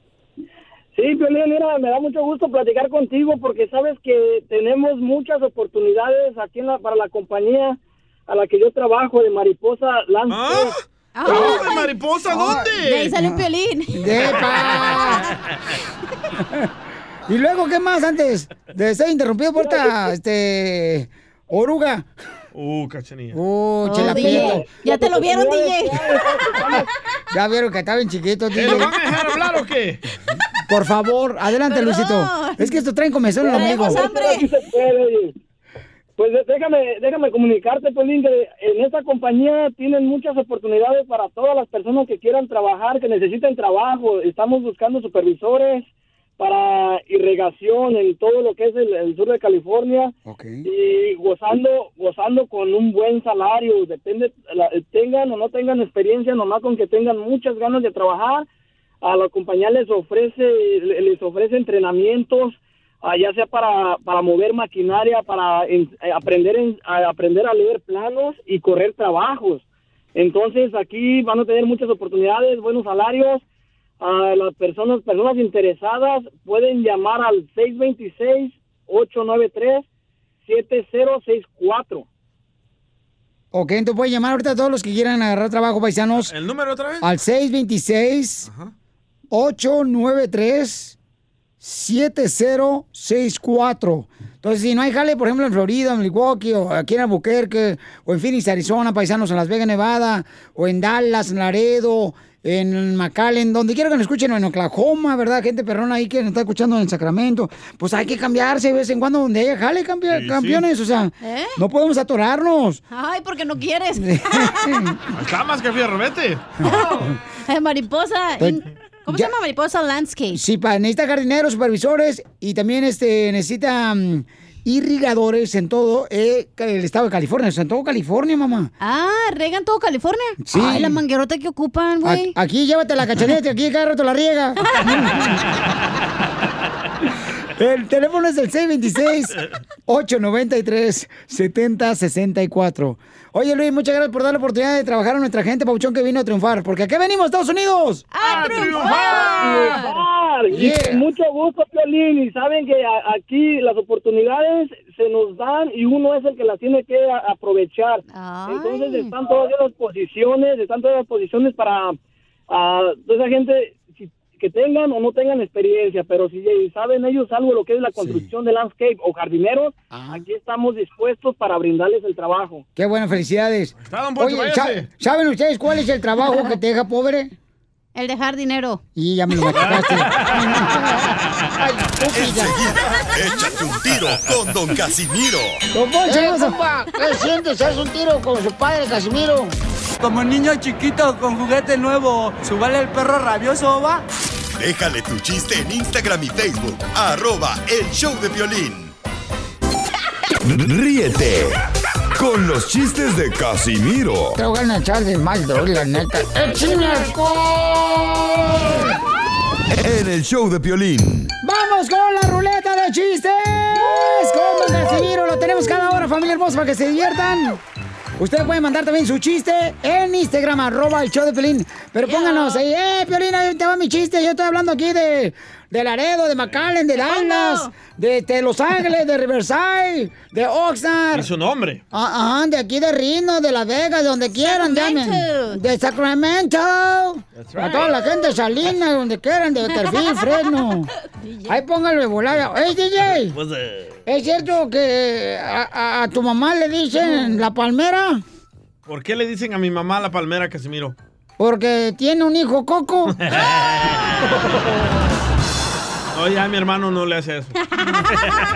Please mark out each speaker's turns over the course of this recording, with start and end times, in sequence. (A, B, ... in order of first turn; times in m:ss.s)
0:01.0-0:10.7 A
0:10.3-0:10.7 B
0:11.2-0:11.9 C
0:11.2-0:13.1 B
0:12.3-0:13.3 D
0:12.4-0:14.2 C
0:13.9-0:15.3 D
0:17.3-0:22.1 D
0:19.6-0:19.9 A
0:22.5-0:23.4 B
0:23.3-0:24.6 D
0:23.8-0:26.2 C
0:24.0-0:26.8 A
0:27.3-0:28.9 D
0:28.5-0:30.0 B
0:30.7-0:34.0 D
0:31.7-0:32.8 C
0:33.4-0:34.5 C
0:33.5-0:35.3 A
0:36.2-0:45.9 A
0:46.4-0:58.5 A
0:50.2-0:50.6 D
0:59.0-1:09.6 A
1:10.1-1:13.4 A
1:14.0-1:19.8 A
1:20.4-1:22.0 A
1:23.5-1:26.3 D
1:26.1-1:27.0 B
1:27.0-1:28.5 D
1:28.5-1:28.7 B
1:29.3-1:31.0 D
1:31.6-1:52.8 D
1:50.1-1:50.7 B
1:51.2-1:51.6 C
1:52.9-1:54.7 C
1:54.0-1:55.0 D
1:55.1-1:56.5 B
1:56.6-2:00.4 C
1:58.4-1:59.3 D
2:00.3-2:08.7 D
2:08.8-2:12.3 C
2:10.4-2:11.0 D
2:12.0-2:15.4 D
2:17.6-2:19.3 D
2:19.9-2:28.0 D
2:28.1-2:30.0 C
2:28.2-2:29.6 B
2:29.1-2:42.0 A
2:30.5-2:31.0 D
2:38.1-2:39.1 C
2:42.5-2:52.6 A
2:49.9-2:50.2 D
2:52.8-2:57.3 D
2:53.8-2:54.9 B
2:58.0-2:58.8 C
2:59.0-3:00.9 D
2:59.5-3:00.4 B
3:01.6-3:02.6 D
3:02.1-3:05.6 E
3:05.7-3:09.5 D
3:06.1-3:06.6 C
3:10.0-3:14.0 F
3:14.6-3:18.9 E
3:20.4-3:21.6 E
3:22.2-3:24.4 E
3:24.4-3:28.9 D
3:29.7-3:31.3 E
3:31.4-3:37.6 D
3:38.2-3:51.3 D
3:42.0-3:42.6 C
3:47.0-3:47.7 C
3:51.1-3:51.8 B
3:51.9-4:00.9 D
3:54.3-3:55.6 C
3:57.4-3:57.9 B
3:59.7-4:00.5 C
4:01.1-4:01.6 C
4:01.5-4:03.3 D
4:03.0-4:04.0 B
4:04.1-4:08.2 D
4:08.9-4:11.0 B
4:11.4-4:13.2 D
4:13.2-4:14.2 B
4:16.1-4:17.5 B
4:17.8-4:18.0 C